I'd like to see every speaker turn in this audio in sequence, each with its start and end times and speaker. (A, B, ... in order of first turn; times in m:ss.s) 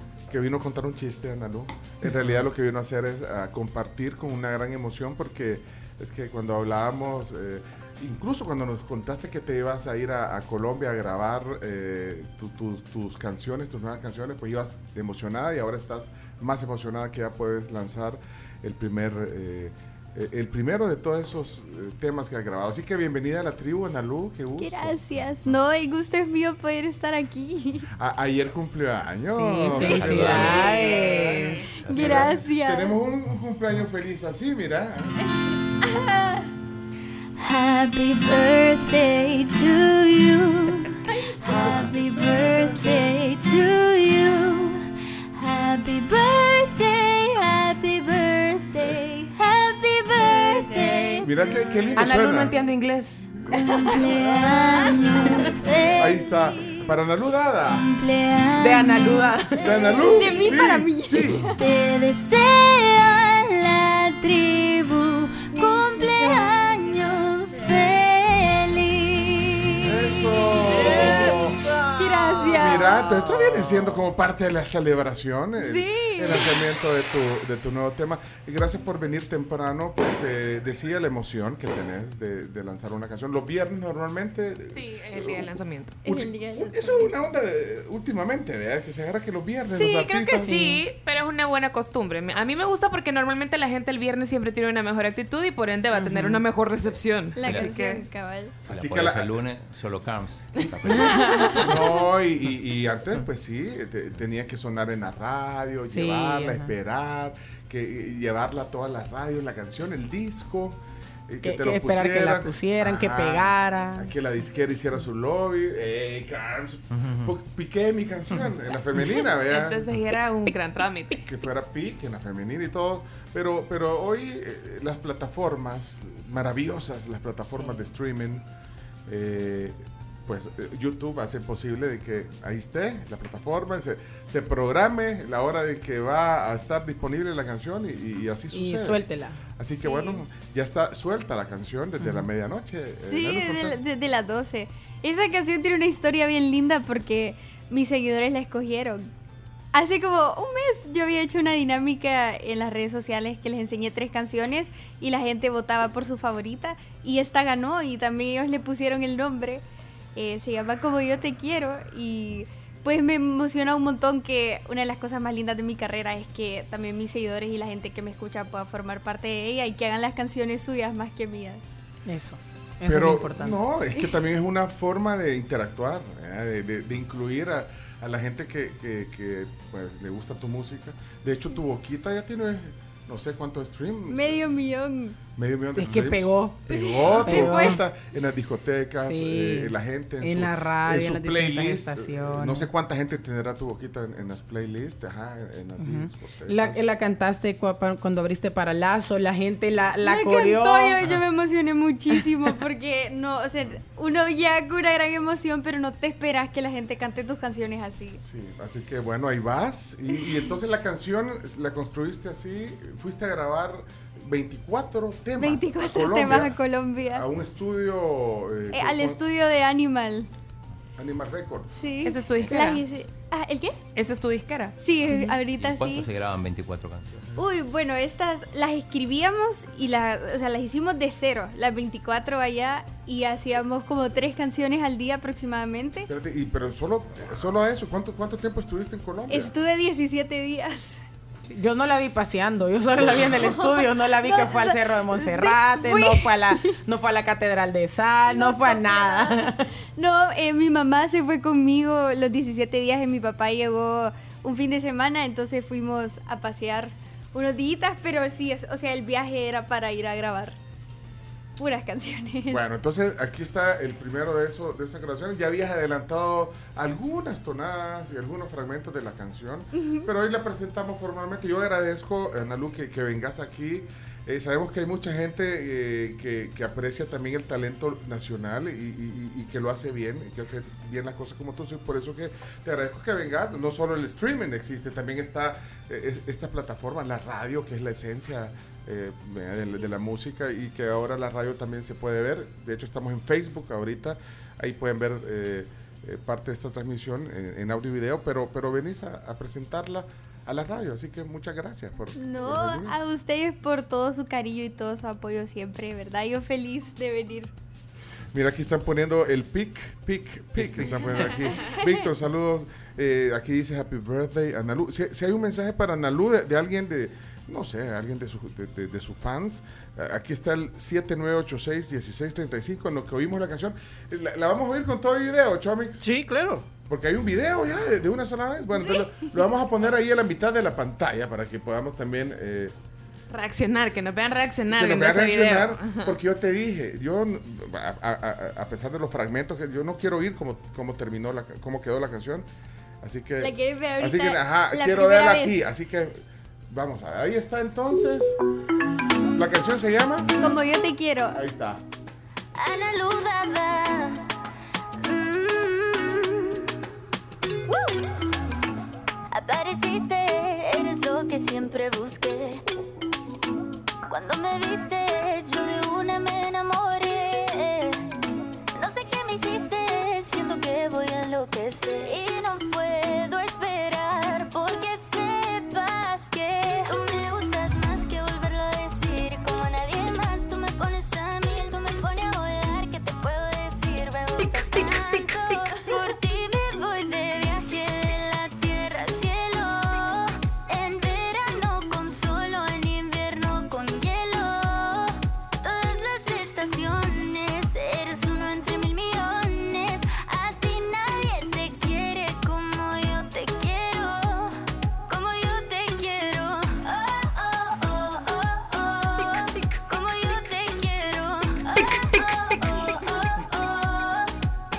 0:00.3-0:25.0 A
0:24.6-0:27.9 B
0:28.0-0:30.6 A
0:29.3-0:31.8 C
0:29.7-0:30.8 D
0:29.9-0:30.8 B
0:31.8-0:33.0 B
0:31.8-0:32.3 D
0:31.9-0:35.2 A
0:35.8-0:36.5 B
0:37.4-0:51.5 E
0:41.1-0:41.9 B
0:41.5-0:41.9 A
0:51.2-0:52.6 A
0:52.0-0:53.2 C
0:53.5-0:57.0 E
0:53.5-0:54.1 B
0:54.0-0:54.6 A
0:56.0-0:57.9 A
0:57.7-1:00.6 E
0:58.6-0:59.6 C
0:59.6-1:01.4 A
1:00.2-1:01.6 B
1:01.6-1:10.0 E
1:09.8-1:11.6 A
1:10.6-1:14.0 F
1:12.0-1:12.9 B
1:12.5-1:25.5 A
1:15.6-1:16.5 B
1:24.7-1:26.0 G
1:26.0-1:27.2 B
1:26.0-1:30.6 A
1:29.6-1:38.0 G
1:30.5-1:30.8 C
1:35.9-1:36.4 C
1:37.4-1:38.6 B
1:37.4-1:37.7 D
1:38.7-1:41.2 D
1:38.7-1:39.4 A
1:40.6-1:59.9 A
1:41.2-1:41.9 B
1:45.9-1:46.7 C
1:51.4-1:54.1 C
1:57.0-1:57.3 D
1:59.5-2:01.2 G
2:01.2-2:08.4 A
2:09.1-2:23.8 A
2:18.5-2:19.4 C
2:19.8-2:20.2 B
2:22.0-2:22.3 C
2:23.0-2:29.1 B
2:29.7-2:39.6 B
2:40.2-2:51.7 B
2:52.1-2:53.6 C
2:52.9-3:04.5 A
3:04.1-3:05.2 B
3:05.4-3:16.8 A
3:05.8-3:07.8 C
3:06.7-3:07.8 B
3:09.0-3:12.7 C
3:15.8-3:21.2 C
3:20.0-3:28.2 B
3:28.2-3:36.6 A
3:35.4-3:37.3 B
3:37.1-3:39.2 A
3:38.7-3:40.3 B
3:41.0-3:41.8 A
3:41.7-3:43.8 B
3:42.0-3:42.8 G
3:44.0-3:44.8 G
3:44.8-3:46.1 B
3:45.1-3:47.2 D
3:47.4-3:56.1 B
3:56.1-3:59.5 A
3:59.3-4:01.0 B
4:01.5-4:09.7 C
4:03.2-4:06.8 B
4:08.3-4:20.6 B
4:21.6-4:22.7 B
4:22.5-5:03.0 A
4:29.7-4:30.1 B
5:02.2-5:07.5 B
5:08.3-5:26.1 A
5:10.6-5:11.4 D
5:26.0-5:26.6 F
5:26.9-5:32.8 A
5:28.8-5:29.2 B
5:33.3-5:36.1 G
5:34.7-5:42.5 A
5:43.0-5:48.4 A
5:43.4-5:45.6 B
5:49.4-5:50.4 A
5:50.4-5:51.4 B
5:51.3-5:51.8 A
5:52.6-5:54.2 E
5:55.0-5:56.7 E
5:59.3-6:02.6 E
6:04.1-6:08.1 E
6:08.8-6:44.6 E
6:45.1-6:54.3 E